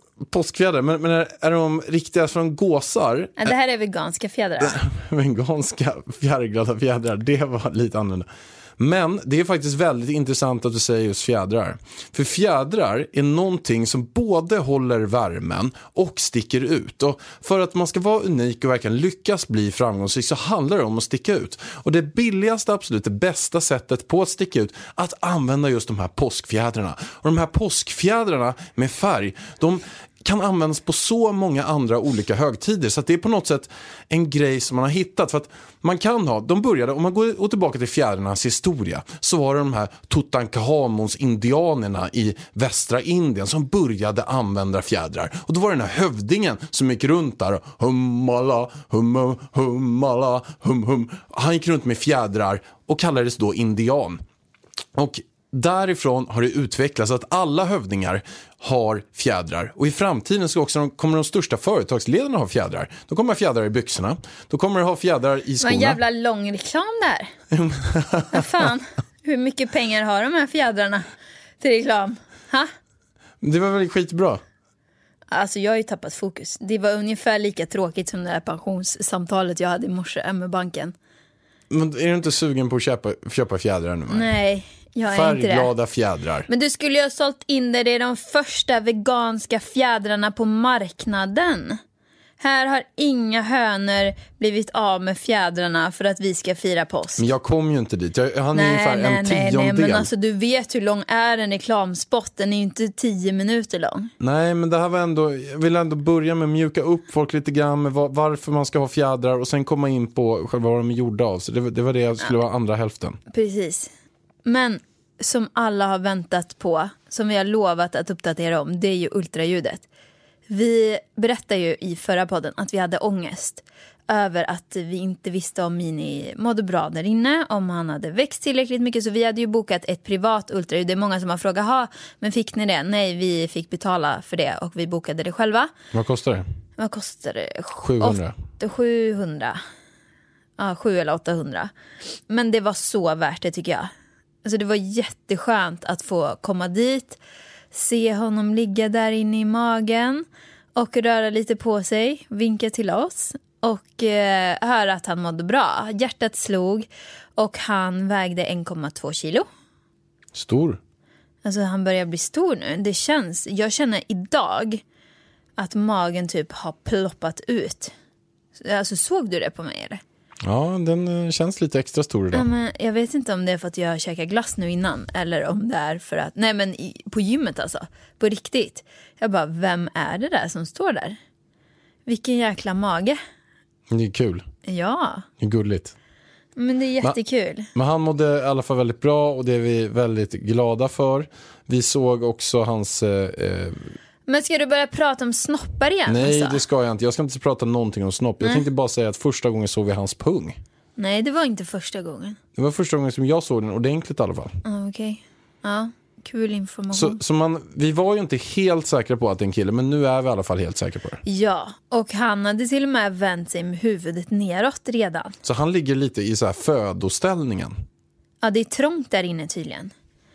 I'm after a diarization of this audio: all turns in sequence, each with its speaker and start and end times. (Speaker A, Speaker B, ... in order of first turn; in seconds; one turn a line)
Speaker A: 0.2-3.5
Speaker B: 3.4-4.8
Speaker A: 4.6-54.2
Speaker A: 55.0-66.0
Speaker B: 65.6-67.3
Speaker A: 67.5-68.7
Speaker B: 68.3-71.1
Speaker B: 71.6-72.7
Speaker A: 73.4-74.4
Speaker B: 75.3-80.9
Speaker A: 81.7-84.3
Speaker B: 84.1-85.7
Speaker A: 85.1-86.5
Speaker B: 86.5-91.8
Speaker B: 92.4-97.3
Speaker A: 97.2-100.1
Speaker B: 98.5-104.1
Speaker A: 104.2-113.2
Speaker B: 113.3-113.9
Speaker B: 114.5-119.8
Speaker B: 120.5-135.7
Speaker A: 135.9-136.4
Speaker B: 136.8-139.6
Speaker A: 137.8-138.3
Speaker B: 140.6-141.7
Speaker B: 142.3-143.9
Speaker B: 144.4-147.2
Speaker B: 147.7-150.2
Speaker B: 150.8-159.5
Speaker A: 160.3-160.8
Speaker B: 161.4-164.8
Speaker B: 165.6-167.9
Speaker B: 168.6-170.0
Speaker A: 170.4-172.5
Speaker B: 172.3-181.2
Speaker B: 182.1-183.2
Speaker A: 183.9-184.4
Speaker B: 184.7-185.3
Speaker A: 185.4-185.9
Speaker B: 186.6-187.7
Speaker A: 187.7-193.9
Speaker B: 194.3-196.6
Speaker A: 196.1-200.6
Speaker B: 201.0-202.4
Speaker A: 202.6-204.5
Speaker B: 204.7-207.2
Speaker A: 206.9-211.2
Speaker B: 211.2-215.4
Speaker A: 215.4-217.8
Speaker B: 218.4-219.9